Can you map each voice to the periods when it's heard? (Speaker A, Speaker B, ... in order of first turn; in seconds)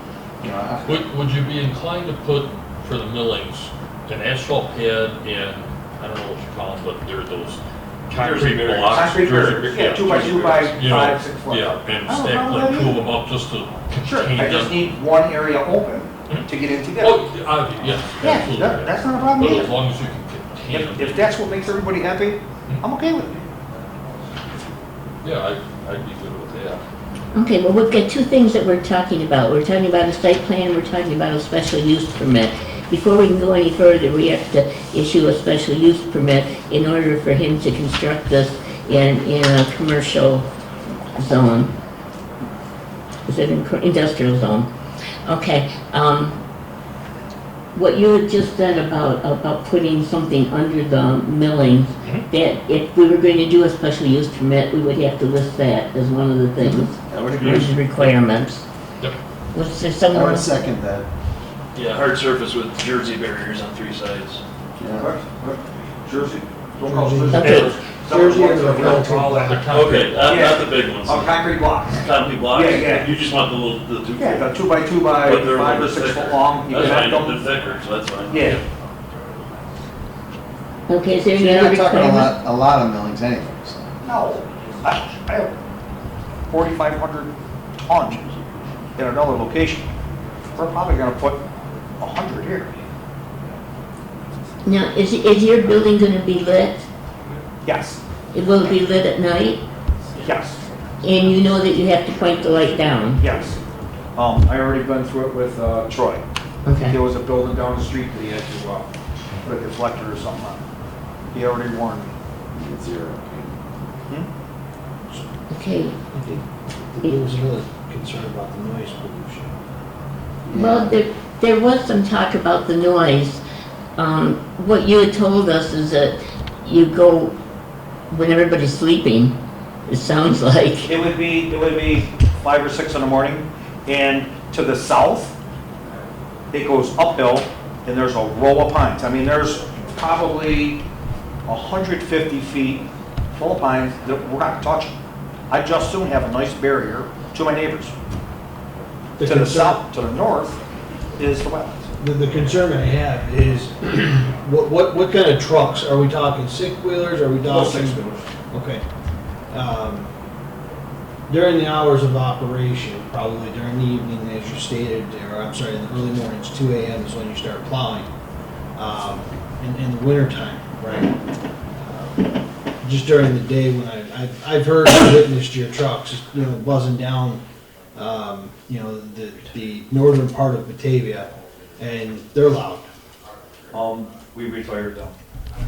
Speaker A: 0.4-1.0, 56.6-57.7, 60.1-61.1, 64.8-65.1, 81.3-83.9, 112.5-113.6, 120.5-121.0
Speaker B: 0.8-14.8, 17.0-21.4, 25.2-26.8, 57.3-58.1, 69.0-70.4
Speaker C: 8.2-8.8, 61.7-64.4, 69.7-74.5, 75.1-78.5
Speaker D: 8.8-13.0, 14.0-17.2, 18.2-19.7, 20.7-23.4, 64.9-69.7, 70.2-73.1, 74.2-77.4, 78.3-78.6, 84.0-85.6, 86.5-88.2, 89.0-89.9, 90.5-91.4, 92.0-92.7, 97.6-98.0, 100.2-100.6, 103.2-103.6, 104.2-106.2, 106.8-108.9, 109.4-110.6, 111.3-112.1, 130.9-135.3, 136.5-140.8, 141.4-144.9, 145.5-147.9, 149.2-150.6, 151.2-151.9, 157.4-158.3, 183.7-185.2
Speaker E: 27.3-40.5, 41.2-41.7, 43.3-44.7, 45.2-46.4, 47.7-57.0, 57.5-58.6, 59.5-60.5, 67.4-67.7, 80.9-82.3, 94.6-96.8, 98.3-99.6, 101.0-103.2, 106.6-107.0, 115.5-116.0, 120.5-123.4, 124.0-127.3, 128.1-129.3, 129.9-130.9
Speaker F: 66.8-69.7, 116.1-119.5, 149.2-149.8, 152.0-158.8, 159.5-160.1, 161.3-168.1, 168.8-171.1, 171.8-177.4, 177.9-182.8